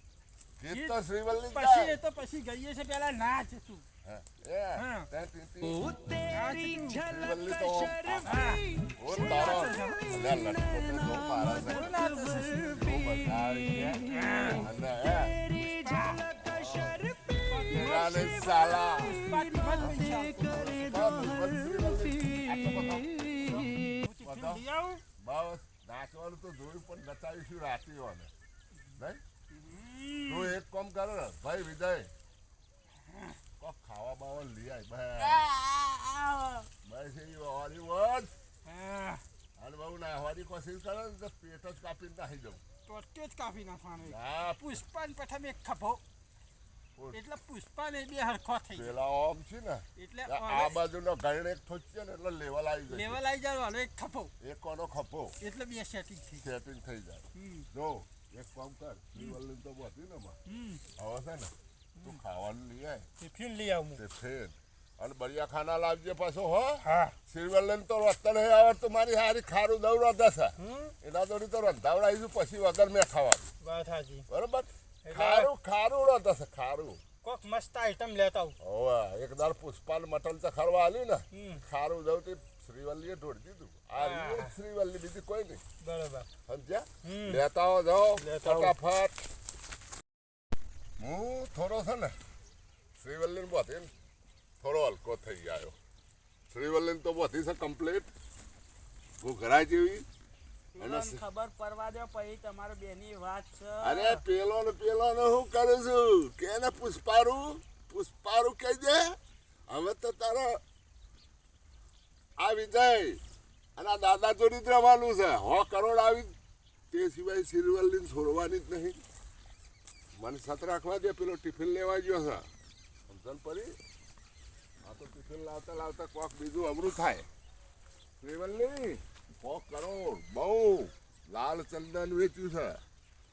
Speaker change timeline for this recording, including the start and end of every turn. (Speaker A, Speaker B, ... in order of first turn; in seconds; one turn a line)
Speaker A: 0.6-2.0
Speaker B: 0.7-1.0
Speaker B: 1.5-3.9
Speaker A: 4.0-6.0
Speaker B: 4.8-5.1
Speaker B: 6.3-7.1
Speaker A: 7.0-12.0
Speaker B: 8.2-10.2
Speaker B: 11.2-13.1
Speaker A: 12.7-15.4
Speaker B: 14.1-14.7
Speaker B: 15.5-21.4
Speaker A: 16.4-17.0
Speaker A: 17.7-19.2
Speaker A: 19.8-24.6
Speaker B: 23.5-25.0
Speaker A: 25.2-28.3
Speaker A: 29.0-29.2
Speaker B: 29.5-30.6
Speaker A: 30.3-32.1
Speaker B: 33.1-33.4
Speaker A: 33.6-35.5
Speaker C: 35.1-36.7
Speaker A: 36.8-38.3
Speaker B: 38.6-39.2
Speaker A: 39.6-42.6
Speaker B: 42.9-46.0
Speaker A: 44.0-44.8
Speaker B: 47.1-48.9
Speaker A: 48.7-53.2
Speaker B: 50.0-50.8
Speaker B: 52.9-54.3
Speaker A: 54.4-55.4
Speaker B: 55.4-56.5
Speaker A: 56.4-60.4
Speaker B: 57.3-57.7
Speaker B: 60.5-60.8
Speaker A: 61.0-63.1
Speaker B: 63.2-64.0
Speaker A: 64.0-73.5
Speaker B: 66.8-67.2
Speaker B: 70.6-70.9
Speaker B: 73.6-74.3
Speaker A: 74.3-77.0
Speaker B: 75.0-75.5
Speaker B: 77.2-78.6
Speaker A: 78.6-85.6
Speaker B: 81.3-81.6
Speaker B: 84.0-84.5
Speaker B: 85.8-86.3
Speaker A: 86.5-89.2
Speaker B: 87.0-87.4
Speaker B: 88.2-88.8
Speaker A: 91.0-92.2
Speaker A: 93.0-93.9
Speaker A: 94.6-95.8
Speaker A: 96.5-98.1
Speaker A: 99.2-100.1
Speaker C: 100.8-104.2
Speaker A: 100.8-101.2
Speaker A: 103.8-109.2
Speaker A: 109.7-110.6
Speaker A: 112.4-113.2
Speaker A: 113.8-116.4
Speaker A: 116.9-119.0
Speaker A: 120.2-122.5
Speaker A: 123.1-123.8
Speaker A: 124.8-127.3
Speaker A: 128.2-132.8